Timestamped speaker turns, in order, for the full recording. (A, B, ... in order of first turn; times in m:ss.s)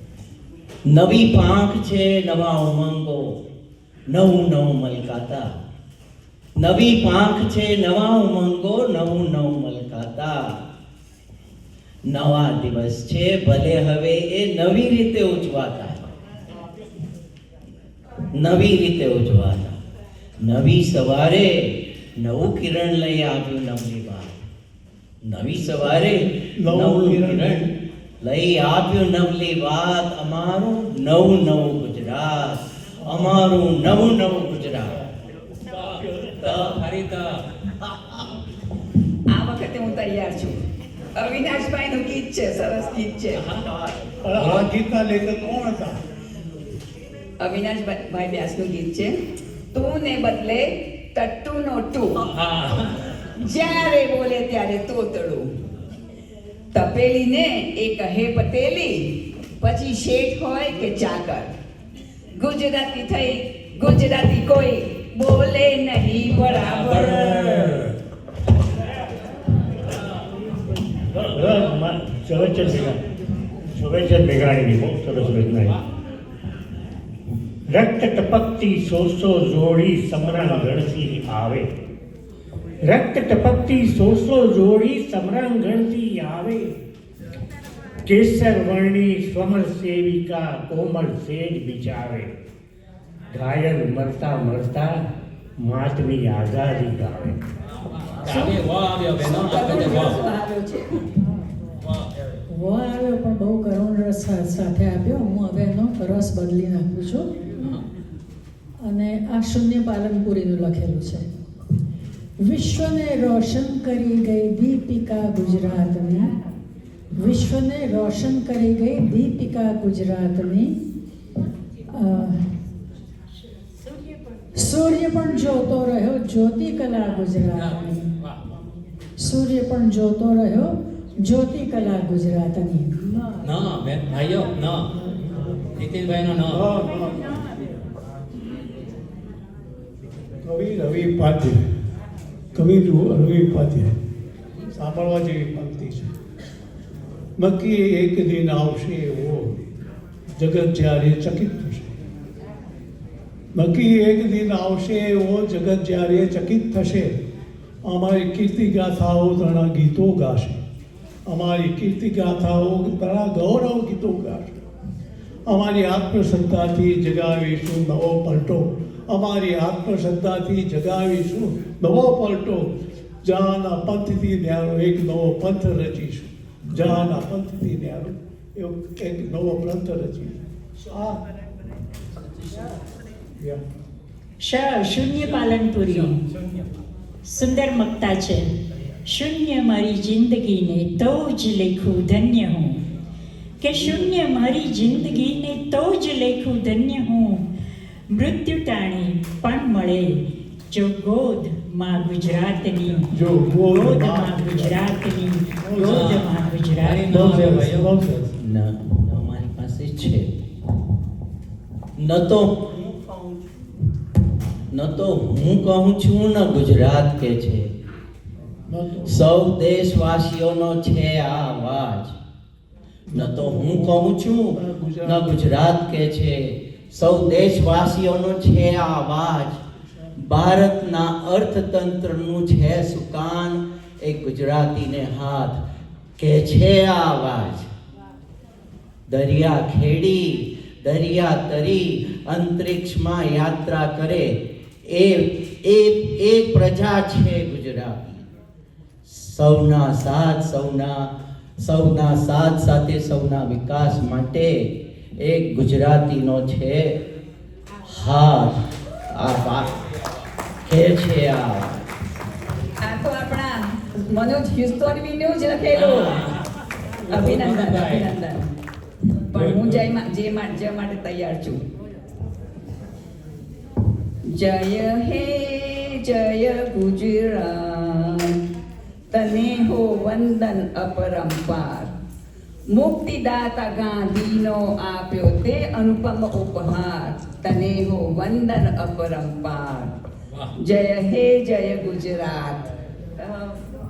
0:00.8-0:03.4 A
0:04.1-0:05.5 A
0:06.6-0:10.4 A
0:12.1-0:16.0 A
0:18.3-0:19.8 A
0:20.4-0:24.4 A
0:25.2-0:27.7 A
0:26.5-0:27.7 B
0:28.2-0:35.0 A
0:33.0-0:34.2 B
0:35.7-0:37.4 C
0:36.0-0:36.4 B
0:36.4-0:36.8 A
0:39.3-0:40.6 D
0:41.2-0:43.5 D
0:43.4-0:43.6 C
0:44.2-0:46.0 B
0:44.4-0:44.7 C
0:47.4-0:49.1 D
0:49.7-0:52.2 D
0:52.2-0:53.0 C
0:53.4-0:55.5 D
0:56.7-1:01.5 D
1:02.4-1:07.7 D
1:06.4-1:08.0 C
1:11.1-1:13.0 E
1:13.7-1:15.8 E
1:17.7-1:21.7 E
1:20.2-1:20.8 B
1:22.8-1:26.8 E
1:28.0-1:32.4 E
1:33.3-1:35.1 E
1:35.6-1:37.4 E
1:37.8-1:40.2 C
1:38.2-1:38.6 D
1:39.2-1:41.1 D
1:41.8-1:42.1 C
1:42.5-1:47.5 F
1:48.8-1:51.3 F
1:52.4-1:56.3 F
1:57.2-2:00.7 F
2:01.9-2:02.4 F
2:04.6-2:08.1 F
2:07.4-2:08.4 C
2:09.2-2:13.4 F
2:13.4-2:14.9 C
2:15.1-2:15.5 B
2:15.8-2:16.7 C
2:16.5-2:17.4 B
2:20.4-2:21.7 B
2:22.6-2:24.0 B
2:24.7-2:26.1 B
2:27.4-2:29.7 B
2:30.4-2:32.0 B
2:33.6-2:37.2 B
2:37.9-2:40.6 B
2:41.3-2:44.6 B
2:45.5-3:01.2 B
3:04.4-3:06.2 G
3:07.2-3:08.5 G
3:09.0-3:12.8 G
3:13.6-3:17.4 G
3:18.1-3:27.1 G
3:23.1-3:24.9 B
3:25.6-3:26.2 B
3:25.9-3:27.9 C
3:27.1-3:28.4 B
3:28.4-3:30.3 A
3:32.0-3:33.4 A
3:34.7-3:37.7 A
3:38.7-3:39.2 B
3:39.1-3:42.2 A
3:43.1-3:45.4 B
3:43.1-3:49.6 A
3:50.2-3:55.6 A
3:56.2-3:57.7 A
3:59.1-4:08.3 A
4:09.1-4:17.0 A
4:17.8-4:19.8 A
4:20.7-4:21.8 A
4:22.8-4:26.2 D
4:25.7-4:26.4 C
4:27.0-4:28.1 C
4:27.1-4:28.5 D
4:29.3-4:31.6 D
4:29.4-4:29.9 C
4:34.3-4:38.4 D
4:39.1-4:41.9 D
4:42.7-4:49.9 D
4:50.6-4:53.6 D